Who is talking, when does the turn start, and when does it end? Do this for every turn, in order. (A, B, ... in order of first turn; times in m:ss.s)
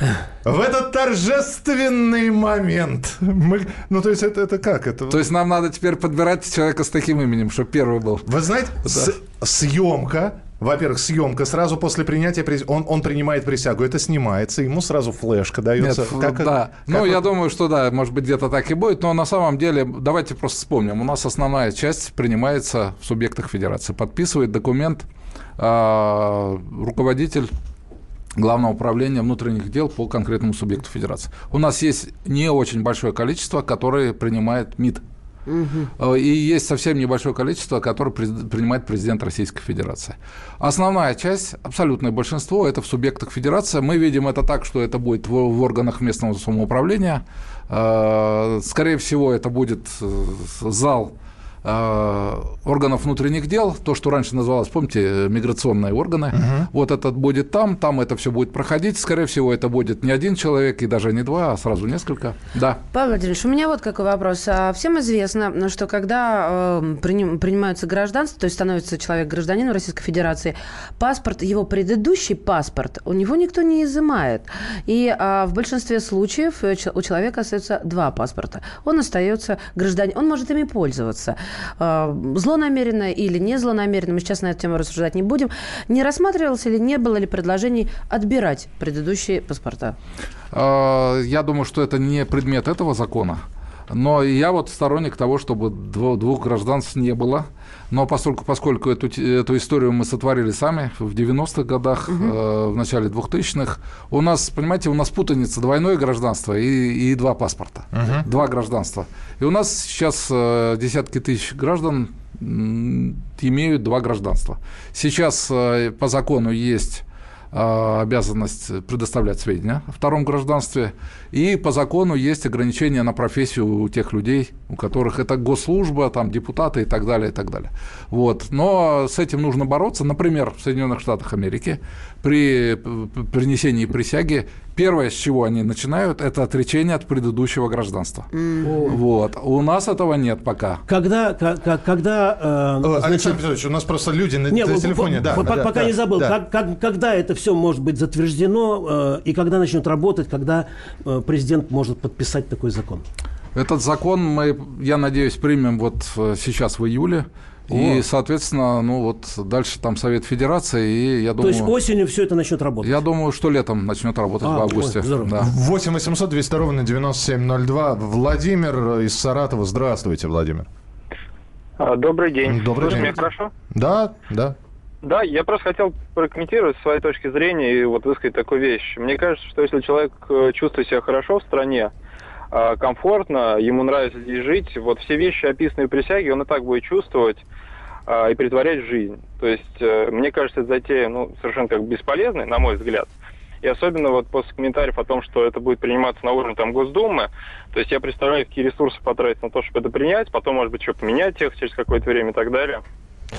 0:00.4-0:05.2 A
0:05.1-0:08.3 B
0:08.2-0:17.2 A
0:08.8-0:09.1 B
0:15.8-0:25.0 B
0:25.6-0:27.5 B
0:28.4-0:35.0 B
0:35.5-0:35.9 C
0:36.0-0:51.1 B
0:51.6-1:02.8 B
0:56.3-0:56.7 A
1:02.9-1:30.0 C
1:30.5-2:18.3 B
1:42.1-1:42.3 C
1:47.9-1:48.2 A
2:18.3-2:18.9 C
2:18.6-2:19.0 D
2:18.8-2:20.8 B
2:20.9-2:23.4 D
2:22.8-2:26.4 A
2:24.5-2:33.0 D
2:33.5-2:41.7 B
2:37.7-2:38.0 D
2:41.4-2:43.0 D
2:42.8-2:45.5 B
2:44.4-2:45.4 D
2:45.4-2:50.7 A
2:51.8-2:53.5 E
2:52.4-2:54.6 A
2:55.0-3:01.9 E
3:02.5-3:07.4 E
3:08.1-3:13.1 E
3:13.6-3:22.8 E